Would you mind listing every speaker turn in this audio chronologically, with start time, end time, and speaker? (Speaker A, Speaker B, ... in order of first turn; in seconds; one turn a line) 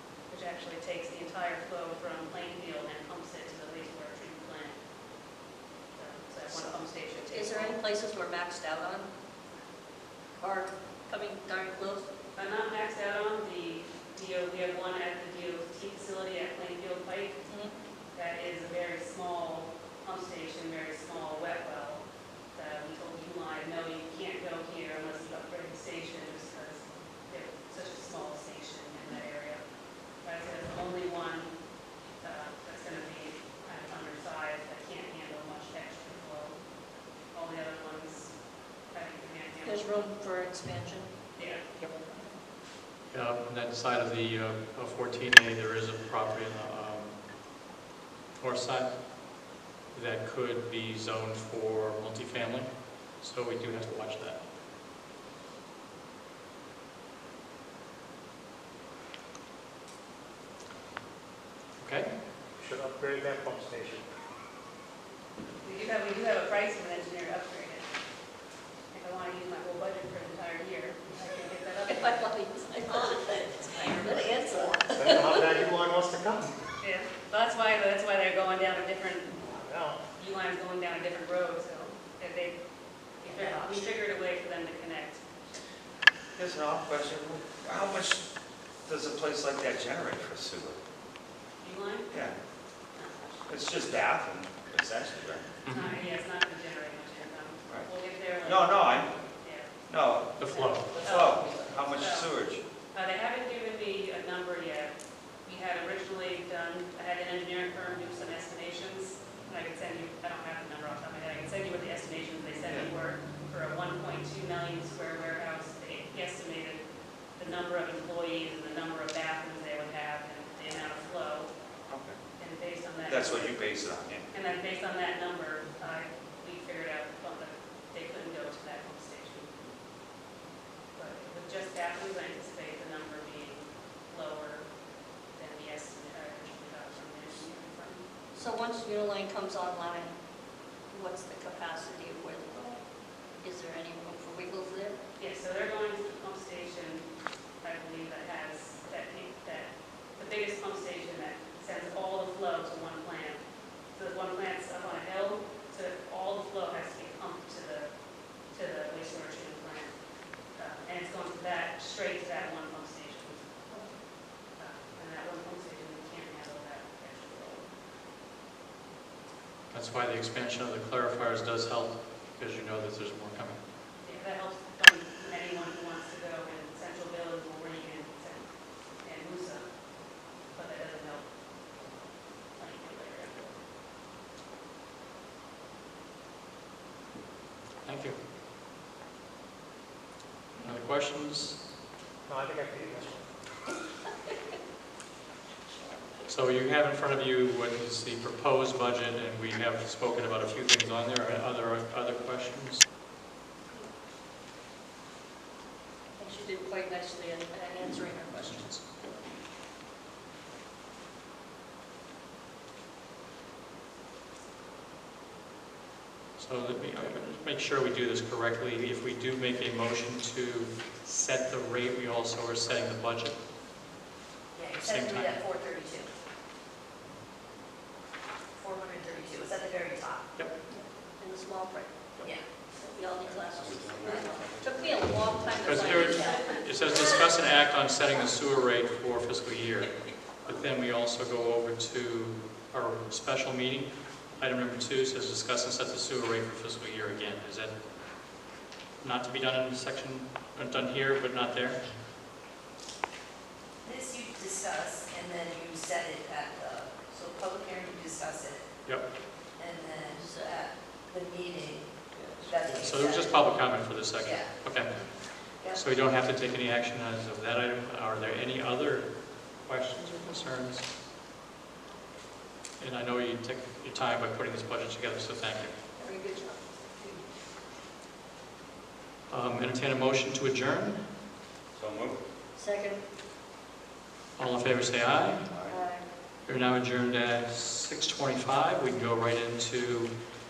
Speaker A: 0.3-4.8
Speaker A: 6.0-7.8
Speaker B: 7.3-9.1
Speaker B: 10.4-12.1
Speaker A: 12.3-17.4
Speaker B: 17.5-17.7
Speaker A: 18.1-29.6
Speaker A: 30.2-31.5
Speaker A: 32.2-36.6
Speaker A: 37.3-38.3
Speaker A: 38.9-39.9
Speaker B: 39.6-41.2
Speaker A: 41.4-41.6
Speaker B: 41.8-42.4
Speaker C: 43.1-47.2
Speaker C: 48.4-49.0
Speaker C: 49.9-54.4
Speaker C: 61.8-62.1
Speaker D: 62.6-64.0
Speaker A: 65.6-67.8
Speaker A: 68.9-72.2
Speaker B: 71.8-75.4
Speaker A: 73.6-74.7
Speaker E: 73.9-74.8
Speaker D: 74.9-76.5
Speaker A: 76.8-79.4
Speaker D: 79.5-80.0
Speaker A: 80.2-82.6
Speaker A: 83.2-85.2
Speaker E: 83.3-83.9
Speaker F: 86.3-88.3
Speaker F: 88.9-90.8
Speaker A: 91.6-92.1
Speaker A: 93.0-93.5
Speaker F: 93.5-95.5
Speaker C: 95.7-96.0
Speaker A: 95.7-98.9
Speaker F: 97.7-99.1
Speaker A: 99.4-99.7
Speaker F: 99.9-100.4
Speaker C: 100.4-101.0
Speaker A: 100.5-102.3
Speaker F: 101.0-102.6
Speaker E: 101.5-101.8
Speaker A: 102.9-116.8
Speaker F: 112.7-112.9
Speaker A: 117.4-121.5
Speaker F: 121.9-122.2
Speaker A: 122.4-123.6
Speaker F: 123.1-124.2
Speaker A: 124.3-129.5
Speaker A: 131.0-134.7
Speaker A: 135.3-138.0
Speaker B: 138.3-140.1
Speaker B: 140.9-142.8
Speaker B: 143.4-145.0
Speaker A: 145.2-147.1
Speaker A: 147.6-153.4
Speaker A: 153.9-157.9
Speaker A: 158.5-159.9
Speaker A: 160.6-163.5
Speaker A: 164.6-167.7
Speaker C: 169.7-173.6
Speaker A: 174.0-178.5
Speaker A: 179.0-179.7
Speaker A: 180.5-181.2
Speaker A: 182.6-183.6
Speaker C: 187.8-188.2
Speaker C: 190.6-191.6
Speaker D: 192.3-193.3
Speaker B: 195.8-196.0
Speaker C: 196.3-202.8
Speaker B: 206.2-209.1
Speaker C: 216.4-223.4
Speaker E: 224.5-226.1
Speaker C: 224.7-225.4
Speaker E: 228.6-230.3
Speaker B: 230.7-237.2
Speaker F: 233.2-235.9
Speaker C: 235.6-247.7
Speaker C: 249.0-251.8
Speaker E: 253.8-258.7
Speaker E: 259.6-263.4
Speaker B: 260.1-260.5
Speaker C: 262.6-270.9
Speaker E: 264.2-264.5
Speaker E: 265.6-265.9
Speaker C: 272.8-275.8
Speaker B: 276.0-277.3
Speaker C: 279.3-281.1
Speaker F: 281.7-282.2
Speaker B: 282.6-283.0
Speaker C: 284.4-285.5
Speaker F: 285.5-285.8
Speaker B: 285.6-286.1
Speaker C: 286.4-290.1